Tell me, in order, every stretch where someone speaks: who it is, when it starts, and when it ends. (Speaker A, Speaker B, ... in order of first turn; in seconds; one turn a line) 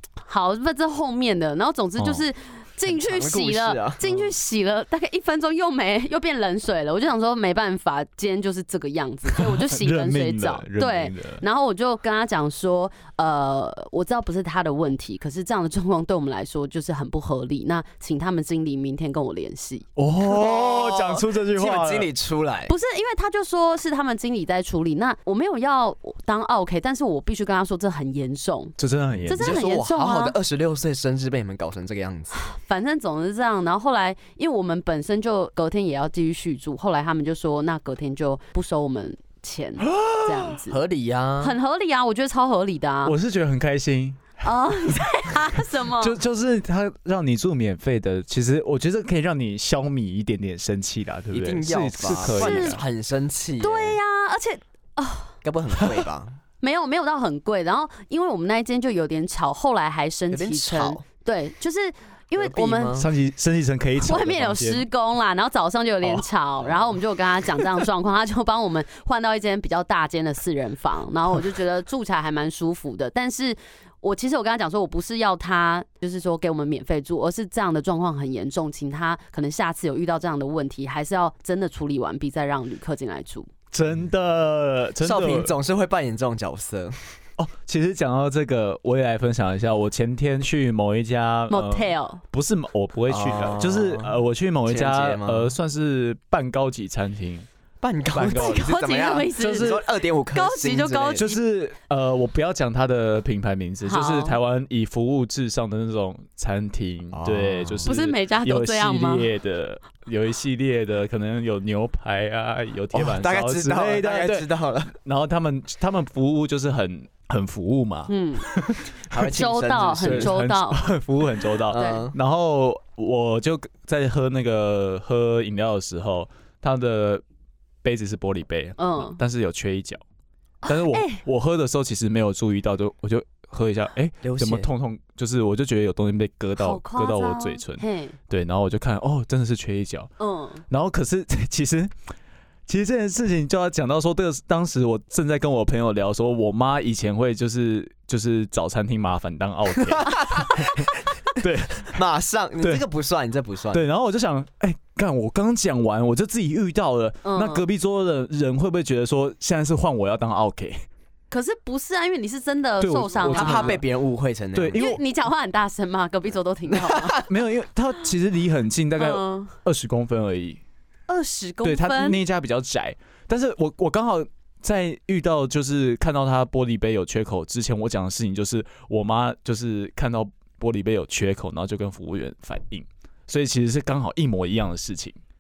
Speaker A: 0.3-19.9
Speaker B: 2.0-2.2
Speaker C: 2.9-4.3
Speaker B: 9.4-11.4
Speaker B: 19.9-22.1
Speaker C: 20.2-22.7
Speaker A: 22.7-28.8
Speaker B: 28.8-29.6
Speaker A: 29.3-30.4
Speaker C: 29.3-32.3
Speaker A: 32.3-40.8
Speaker B: 39.9-40.5
Speaker C: 40.7-41.5
Speaker A: 41.4-43.1
Speaker B: 43.0-44.4
Speaker A: 44.4-46.2
Speaker B: 46.0-52.8
Speaker C: 51.3-54.0
Speaker A: 52.1-52.8
Speaker A: 53.6-55.4
Speaker C: 55.4-56.4
Speaker A: 56.6-63.0
Speaker C: 60.3-61.0
Speaker C: 62.4-63.1
Speaker B: 62.9-64.9
Speaker A: 64.0-83.5
Speaker B: 83.7-85.5
Speaker C: 85.0-87.0
Speaker B: 87.4-97.5
Speaker A: 91.5-92.2
Speaker C: 93.1-95.5
Speaker C: 97.8-101.2
Speaker B: 98.1-98.7
Speaker A: 98.2-99.8
Speaker B: 99.4-99.9
Speaker A: 100.3-101.4
Speaker B: 101.2-118.8
Speaker A: 103.8-104.4
Speaker C: 107.1-107.9
Speaker A: 107.8-109.3
Speaker C: 112.9-114.9
Speaker A: 118.1-118.5
Speaker C: 119.0-120.4
Speaker A: 119.2-120.9
Speaker B: 120.0-127.2
Speaker C: 121.7-122.1
Speaker A: 121.7-122.1
Speaker B: 127.8-130.0
Speaker A: 128.8-129.2
Speaker A: 130.6-131.2
Speaker B: 130.7-140.1
Speaker C: 134.2-134.7
Speaker A: 136.6-138.2
Speaker A: 140.2-140.6
Speaker B: 140.7-141.9
Speaker B: 142.7-152.0
Speaker C: 150.0-150.9
Speaker C: 151.9-153.8
Speaker B: 153.7-160.8
Speaker A: 157.2-157.7
Speaker A: 161.3-163.8
Speaker B: 162.8-163.9
Speaker C: 163.2-164.9
Speaker B: 164.6-165.0
Speaker A: 164.8-167.2
Speaker C: 166.8-167.1
Speaker B: 167.2-170.6
Speaker A: 169.0-169.5
Speaker A: 171.1-172.2
Speaker B: 171.6-185.2